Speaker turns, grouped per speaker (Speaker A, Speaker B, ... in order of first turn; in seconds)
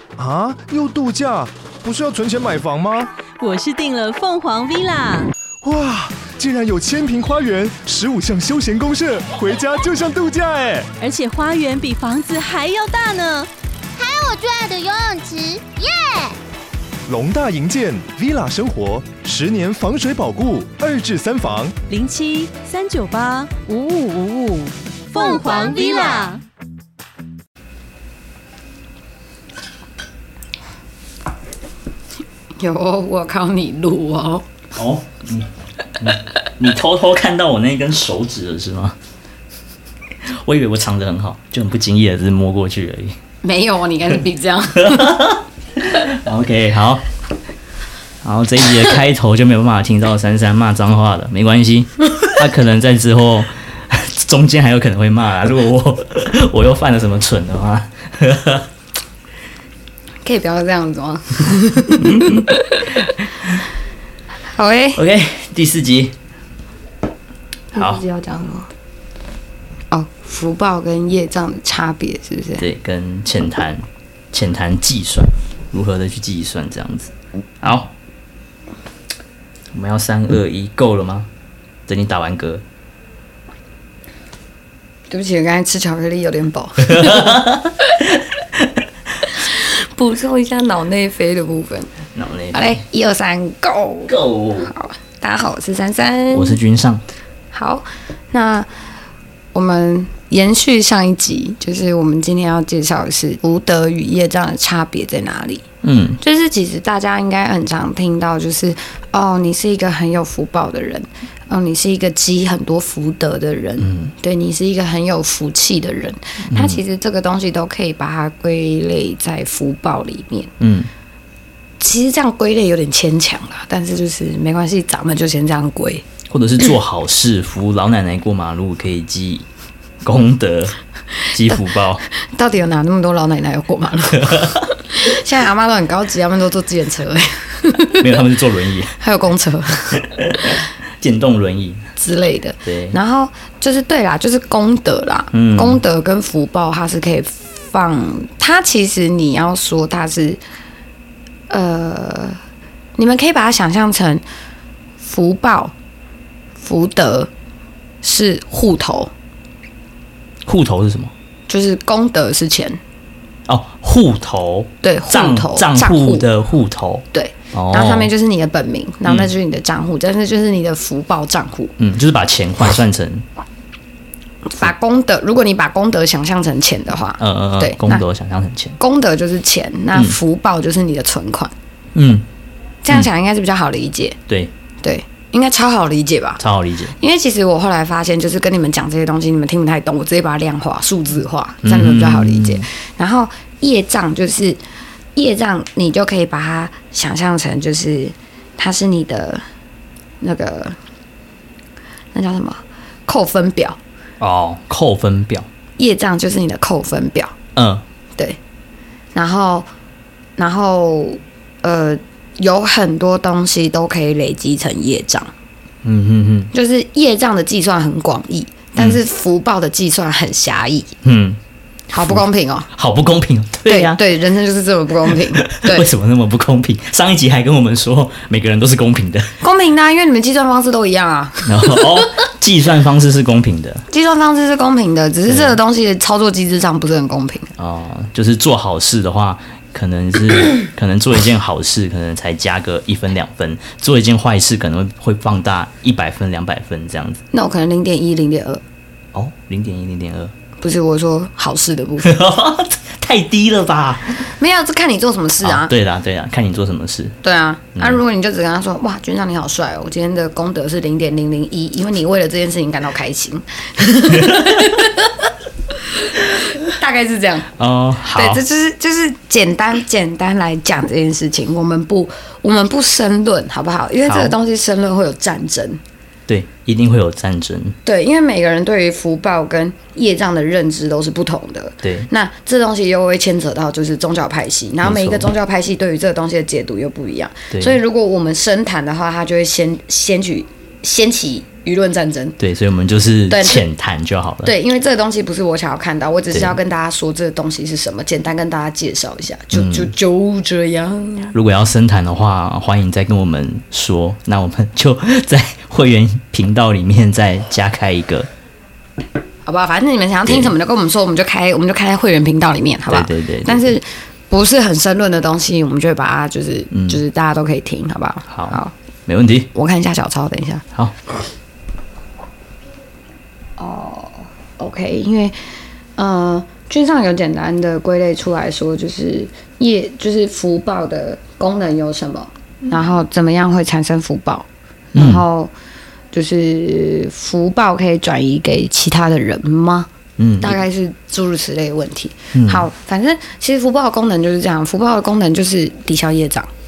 Speaker A: 0.2-3.1, 5.6-10.9, 17.1-21.8
Speaker B: 3.4-5.3, 11.0-13.5, 21.9-26.4
Speaker C: 14.0-16.4, 25.1-26.4
Speaker D: 32.6-34.5, 43.4-45.2, 60.2-63.0, 64.5-65.0, 67.7-68.7, 69.9-72.6, 85.1-87.5, 89.3-91.9, 92.5-96.6, 97.5-98.7, 99.5-105.6, 106.2-120.5, 121.8-126.0, 132.2-138.2, 139.0-140.5, 142.0-150.4, 151.5-152.4, 153.0-154.2, 155.0-155.7, 156.6-157.3, 158.0-159.1, 161.5-162.8, 164.8-166.3, 167.1-171.7, 174.5-178.1, 178.8-181.5, 182.8-184.2, 184.8-186.4, 187.0-194.6, 195.2-199.4, 200.2-200.8, 202.1-203.8, 205.8-207.3, 209.1-209.7, 210.4-215.3, 216.5-220.9, 221.9-222.7, 223.7-225.9, 229.4-232.0, 233.9-237.5, 247.3-248.6, 250.6-252.2, 254.4-255.7, 257.2-265.1, 266.0-267.5, 268.1-275.8, 277.8-292.4, 293.3-293.6, 294.4-301.3, 309.4-318.7, 319.5-320.6, 323.6-325.4, 326.0-335.5, 336.1-339.9, 340.4-346.5
Speaker E: 34.7-39.0, 40.2-43.2, 44.7-47.1, 48.2-58.7, 62.0-62.5, 64.9-66.2, 67.7-68.0, 72.6-77.9, 79.7-81.3, 81.9-82.6, 86.9-87.7, 92.1-92.8, 94.1-94.7, 96.3-97.0, 105.8-106.2, 113.8-114.1, 116.5-116.8, 120.6-120.9, 126.3-129.5, 130.0-130.8, 131.3-132.1, 134.2-134.6, 138.0-139.0, 140.0-141.8, 142.6-143.0, 145.3-145.8, 160.4-161.1, 163.5-168.1, 171.8-173.2, 177.2-178.8, 181.9-182.2, 186.4-186.9, 191.6-192.7, 204.2-205.5, 207.6-207.8, 215.8-216.5, 221.0-221.4, 221.9-224.0, 225.1-229.4, 231.5-233.9, 235.3-235.6, 237.6-247.2, 249.1-250.3, 252.0-254.3, 255.4-257.2, 257.8-258.0, 264.1-264.8, 267.6-268.4, 274.1-274.4, 276.3-277.8, 281.8-282.1, 284.8-285.3, 287.5-287.8, 292.4-294.5, 296.3-296.6, 299.5-299.9, 301.3-308.3, 310.3-310.5, 312.9-313.7, 316.7-317.0, 318.3-319.5, 334.9-335.2, 340.2-340.6, 342.3-342.7